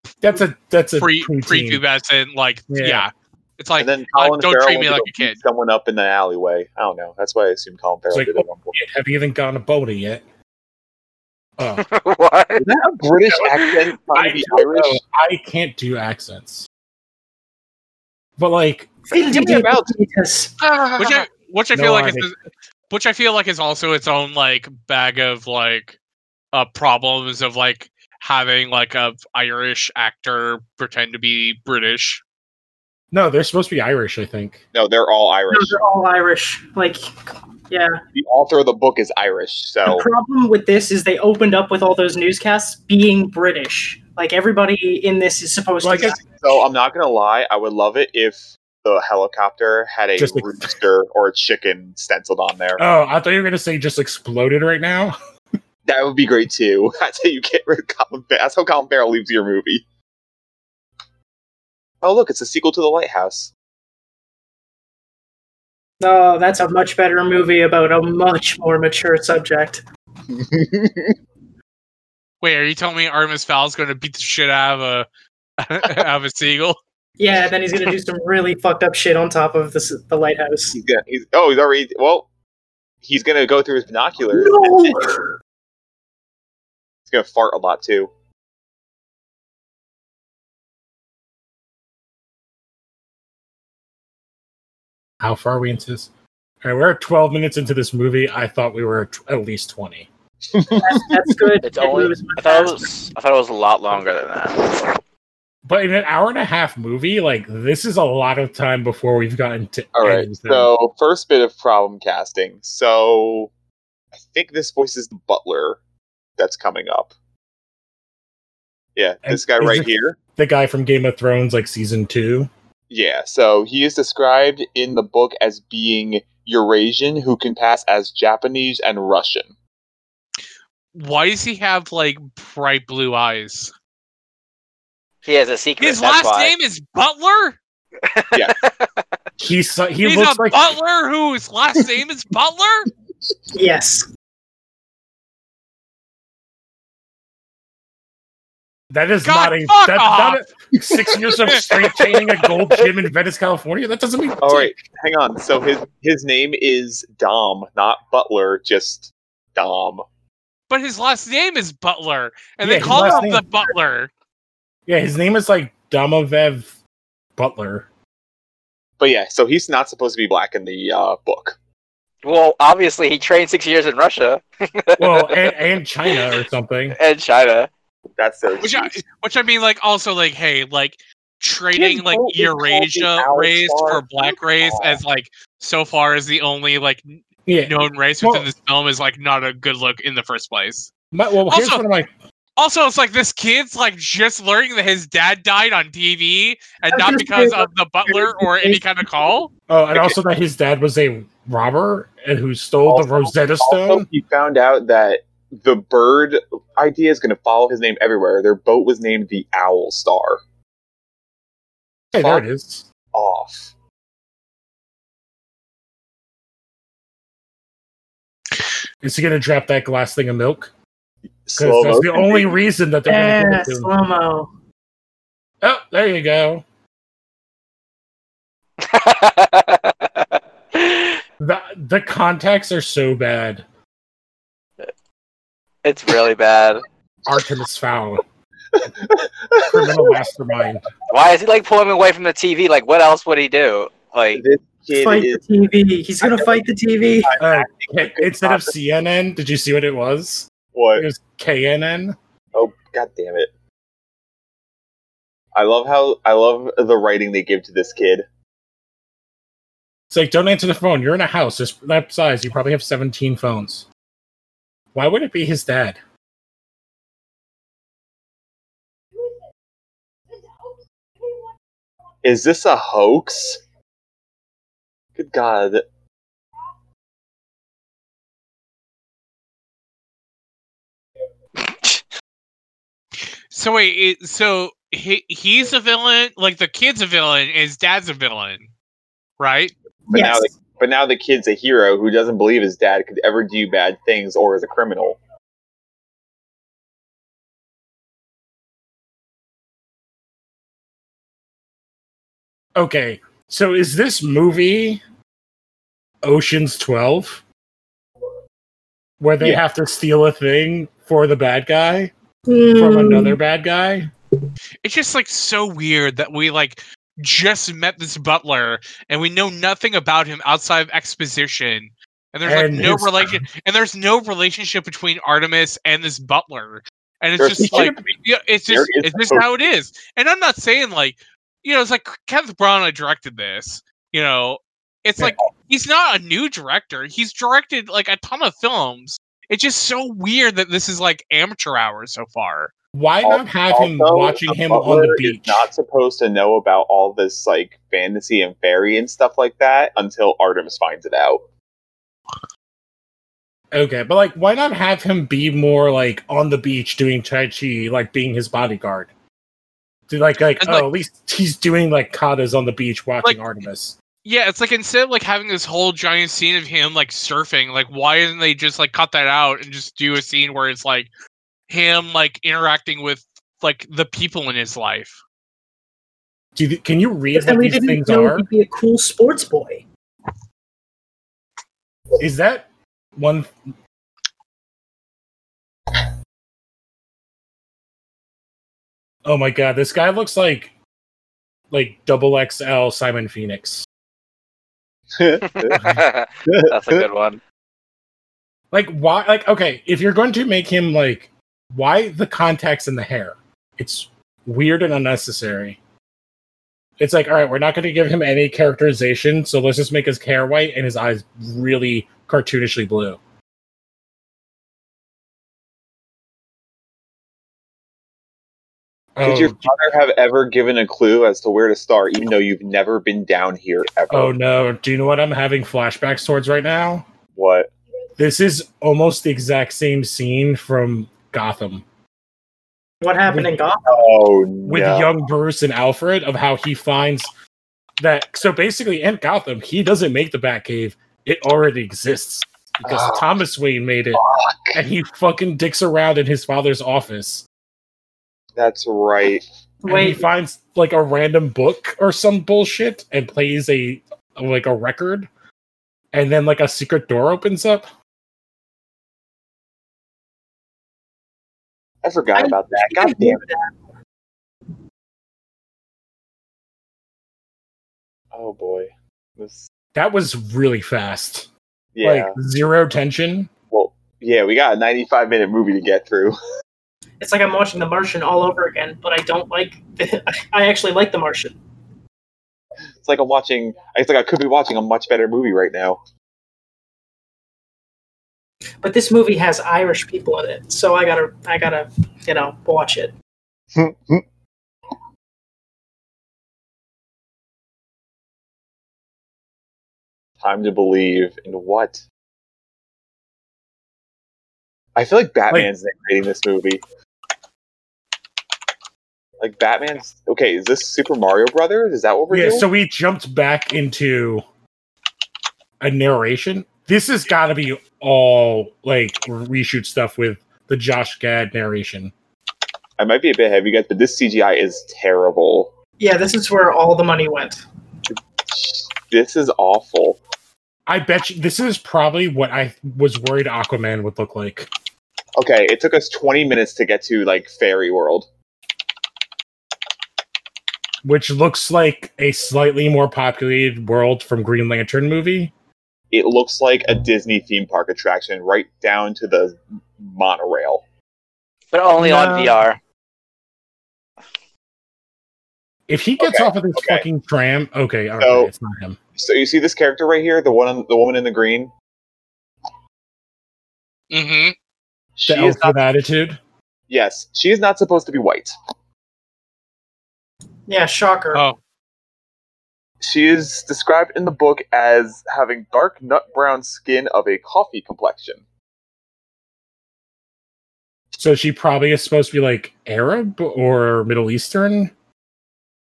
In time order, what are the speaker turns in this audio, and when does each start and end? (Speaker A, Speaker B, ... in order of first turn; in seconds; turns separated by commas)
Speaker A: 0.2-1.8, Speaker B: 1.0-5.4, Speaker A: 2.7-3.0, Speaker C: 3.8-8.7, Speaker A: 8.1-10.2, Speaker A: 11.6-11.8, Speaker D: 11.8-12.6, Speaker C: 12.6-15.0, Speaker A: 14.1-16.7, Speaker A: 18.4-18.9, Speaker E: 19.1-20.5, Speaker C: 19.1-19.9, Speaker C: 20.6-21.3, Speaker B: 21.0-22.3, Speaker A: 21.7-22.3, Speaker B: 22.9-26.0, Speaker B: 26.5-32.2, Speaker A: 33.1-34.6, Speaker C: 34.7-35.8, Speaker E: 35.5-37.0, Speaker E: 37.7-38.0, Speaker C: 38.1-40.1, Speaker E: 39.9-46.3, Speaker A: 45.8-46.2, Speaker C: 46.3-52.8, Speaker A: 50.2-50.7, Speaker A: 52.8-55.1, Speaker C: 55.9-59.8, Speaker C: 62.0-63.5, Speaker E: 66.0-69.8, Speaker C: 70.3-71.1, Speaker B: 72.4-75.1, Speaker B: 75.6-76.8, Speaker E: 77.2-80.8, Speaker C: 80.7-82.3, Speaker C: 83.0-85.1, Speaker E: 84.3-85.3, Speaker C: 87.1-88.1, Speaker A: 95.2-96.1, Speaker A: 96.6-100.1, Speaker C: 100.5-101.0, Speaker E: 100.7-102.9, Speaker D: 101.6-104.9, Speaker A: 105.6-110.7, Speaker C: 110.0-113.5, Speaker C: 114.1-115.8, Speaker C: 116.4-117.1, Speaker C: 119.0-120.2, Speaker A: 119.2-122.5, Speaker C: 122.9-129.5, Speaker B: 130.9-133.7, Speaker D: 135.2-136.5, Speaker B: 135.8-137.6, Speaker D: 138.0-139.0, Speaker A: 139.4-140.7, Speaker B: 140.0-142.9, Speaker E: 143.5-144.1, Speaker A: 148.9-154.7, Speaker B: 149.2-150.4, Speaker D: 152.1-152.8, Speaker C: 154.4-160.0, Speaker B: 160.7-164.1, Speaker A: 162.6-163.4, Speaker A: 164.9-166.7, Speaker A: 167.3-167.9, Speaker C: 169.0-171.6, Speaker D: 172.2-175.5, Speaker A: 175.0-177.0, Speaker D: 176.1-176.3, Speaker D: 176.9-177.7, Speaker C: 178.2-179.0, Speaker B: 178.6-190.9, Speaker C: 181.7-185.0, Speaker A: 187.5-188.5, Speaker A: 191.1-192.1, Speaker B: 191.5-191.8, Speaker B: 192.6-199.5, Speaker E: 196.9-198.8, Speaker A: 199.7-204.1, Speaker C: 202.9-210.4, Speaker A: 212.1-212.8, Speaker C: 212.1-212.4, Speaker C: 213.1-213.7, Speaker A: 219.0-220.7, Speaker C: 221.4-222.5, Speaker A: 221.6-223.9, Speaker E: 223.1-224.5, Speaker A: 225.6-226.6, Speaker D: 228.8-231.2, Speaker A: 231.4-233.6, Speaker D: 235.8-236.8, Speaker A: 237.2-238.2, Speaker C: 239.0-240.2, Speaker A: 239.6-240.9, Speaker D: 241.1-244.4, Speaker C: 244.3-245.4, Speaker E: 244.9-247.3, Speaker C: 246.2-246.6, Speaker C: 247.2-248.7, Speaker A: 247.4-252.2, Speaker C: 250.7-251.1, Speaker C: 252.5-253.5, Speaker C: 255.5-258.2, Speaker A: 260.1-263.9, Speaker A: 264.9-266.0, Speaker C: 272.2-273.6, Speaker C: 275.1-275.8, Speaker D: 281.6-282.0, Speaker B: 283.5-288.7, Speaker B: 289.4-289.7, Speaker E: 290.1-290.5, Speaker C: 290.1-295.2, Speaker A: 302.8-305.0, Speaker A: 306.2-307.4, Speaker A: 309.2-312.1, Speaker E: 312.5-313.4, Speaker A: 312.7-314.1, Speaker B: 314.8-342.7, Speaker A: 322.4-323.4, Speaker C: 327.4-328.1, Speaker A: 327.6-327.9, Speaker C: 328.7-329.4, Speaker A: 342.9-345.7, Speaker C: 343.2-351.4, Speaker A: 353.7-359.1, Speaker A: 360.1-363.9, Speaker B: 360.6-360.9, Speaker B: 364.2-371.1, Speaker B: 371.7-375.2, Speaker A: 376.6-378.4, Speaker E: 377.3-379.8, Speaker A: 382.2-383.5, Speaker A: 389.2-390.7, Speaker A: 391.7-393.9, Speaker C: 395.2-397.1, Speaker D: 395.6-397.4, Speaker A: 398.7-405.8, Speaker A: 407.0-413.2, Speaker A: 419.1-419.7, Speaker C: 419.2-424.3, Speaker A: 424.1-427.1, Speaker C: 427.3-427.7, Speaker A: 428.2-431.8, Speaker E: 433.0-434.1, Speaker C: 433.9-435.1, Speaker A: 434.6-437.3, Speaker A: 438.0-444.2, Speaker C: 442.8-443.3, Speaker C: 444.1-444.8, Speaker A: 444.7-447.4, Speaker C: 448.6-449.4, Speaker E: 449.8-450.2, Speaker A: 449.9-455.3, Speaker A: 456.1-457.9, Speaker C: 462.0-463.4, Speaker E: 462.3-463.8, Speaker C: 468.3-469.7, Speaker A: 469.9-471.5, Speaker C: 471.9-472.3, Speaker A: 472.0-473.5, Speaker C: 473.7-476.4, Speaker E: 477.2-481.6, Speaker C: 483.0-486.0, Speaker E: 488.8-493.1, Speaker C: 493.7-494.2, Speaker C: 500.4-502.0, Speaker C: 504.9-506.8, Speaker C: 509.4-512.7, Speaker A: 512.3-514.4, Speaker A: 515.8-522.1, Speaker C: 523.0-525.7, Speaker E: 526.0-527.6, Speaker C: 528.1-530.2, Speaker A: 530.9-534.7, Speaker C: 535.4-538.3, Speaker A: 541.0-545.5, Speaker C: 546.1-550.8, Speaker D: 551.7-552.8, Speaker A: 552.0-552.4, Speaker A: 555.9-559.0, Speaker C: 556.2-557.0, Speaker C: 558.2-558.5, Speaker C: 559.1-561.7, Speaker B: 564.1-564.5, Speaker C: 565.2-565.8, Speaker A: 565.3-566.4, Speaker C: 566.9-568.5, Speaker E: 570.7-571.4, Speaker B: 571.3-571.6, Speaker C: 573.0-578.4, Speaker A: 581.1-584.9